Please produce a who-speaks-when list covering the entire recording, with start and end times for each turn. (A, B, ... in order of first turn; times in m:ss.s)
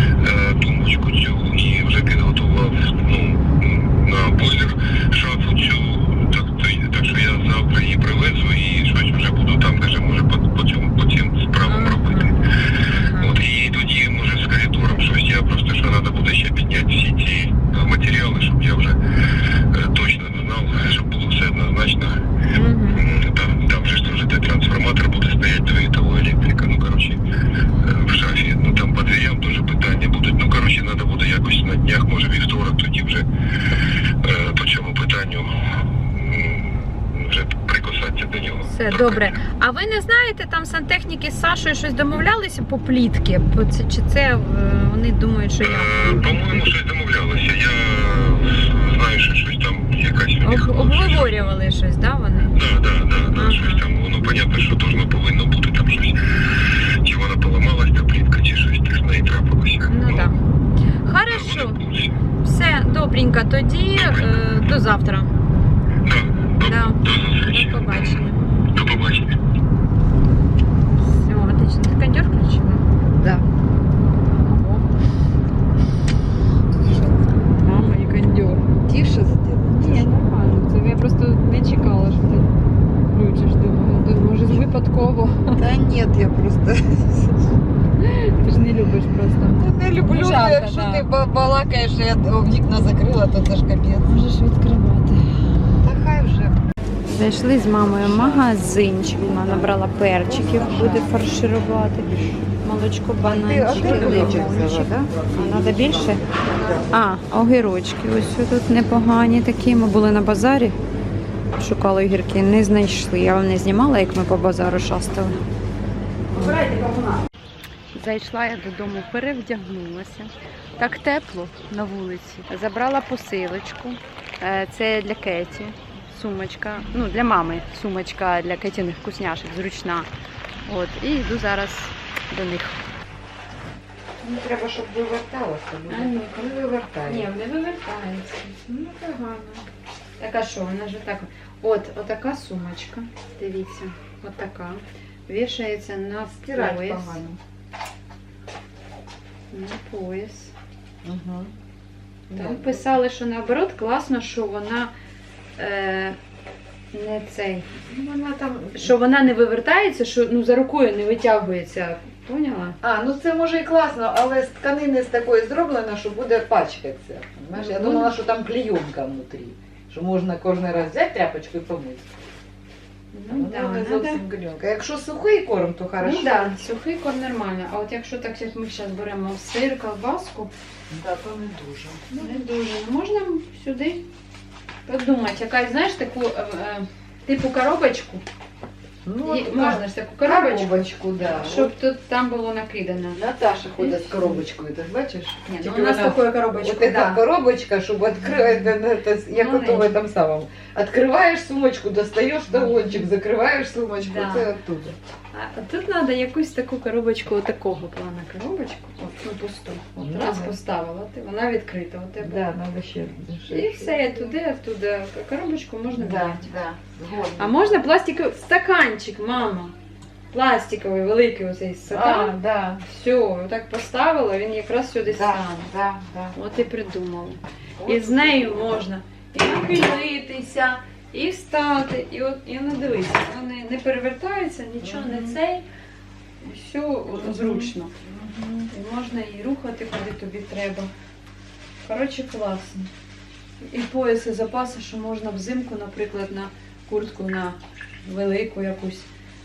0:00.2-0:12.3 A
0:11.6-0:12.4 B
0:12.9-0:13.3 B
0:13.2-0:19.0 A
0:19.7-0:22.2 A
0:22.5-0:23.0 B
0:22.9-0:27.2 A
0:27.8-0:33.3 A
0:34.2-0:35.5 A
0:36.1-0:39.3 A
0:38.7-0:46.7 B
0:45.6-0:51.5 A
0:50.4-0:52.6 B
0:52.5-1:00.3 A
0:53.3-0:53.8 B
0:59.9-1:00.4 B
1:01.0-1:01.8 B
1:01.3-1:02.1 A
1:02.4-1:05.3 B
1:04.0-1:04.4 A
1:06.0-1:08.2 A
1:06.6-1:08.4 B
1:08.7-1:09.3 A
1:11.0-1:12.9 B
1:13.1-1:13.5 C
1:14.3-1:14.9 B
1:17.4-1:18.7 B
1:18.8-1:20.1 C
1:19.7-1:22.5 B
1:23.1-1:25.6 B
1:25.6-1:27.4 C
1:28.0-1:31.1 B
1:29.5-1:34.1 C
1:34.1-1:35.2 B
1:35.8-1:36.6 C
1:37.1-1:46.2 B
1:38.0-1:41.4 C
1:43.2-1:47.0 C
1:46.9-1:50.8 B
1:51.6-1:55.4 B
1:56.3-1:57.2 B
1:57.9-2:10.1 B
2:10.7-2:12.8 B
2:14.2-2:17.3 C
2:15.9-2:16.4 B
2:17.0-2:19.2 B
2:18.7-2:19.6 C
2:20.2-2:27.2 B
2:26.3-2:27.4 C
2:29.5-2:30.5 B
2:31.0-2:31.5 C
2:32.3-2:34.9 B
2:32.3-2:32.9 C
2:35.6-2:36.2 B
2:36.9-2:37.8 B
2:37.8-2:38.9 C
2:38.7-2:42.8 B
2:42.8-2:52.2 C
2:47.5-2:48.2 B
2:53.1-2:54.2 B
2:53.3-2:56.6 C
2:56.0-3:00.5 B
3:00.9-3:02.4 C
3:02.1-3:04.1 B
3:04.9-3:08.2 B
3:09.0-3:11.8 C
3:09.2-3:13.2 B
3:13.1-3:25.0 C
3:13.8-3:14.5 B
3:15.5-3:17.2 B
3:18.2-3:18.7 B
3:19.3-3:20.0 B
3:22.5-3:23.1 B
3:24.0-3:24.5 B
3:25.3-3:32.5 B
3:30.0-3:30.6 C
3:32.2-3:34.3 C
3:33.5-3:36.5 B
3:35.9-3:37.9 C
3:37.4-3:39.8 B
3:40.3-3:45.7 B
3:41.9-3:42.8 C
3:45.1-3:46.4 C
3:46.3-3:55.7 B
3:47.8-3:48.8 C
3:54.8-3:55.4 C
3:56.4-3:57.9 B
3:57.2-3:58.7 C
3:58.7-4:00.9 B
4:01.8-4:02.9 B
4:03.6-4:09.1 B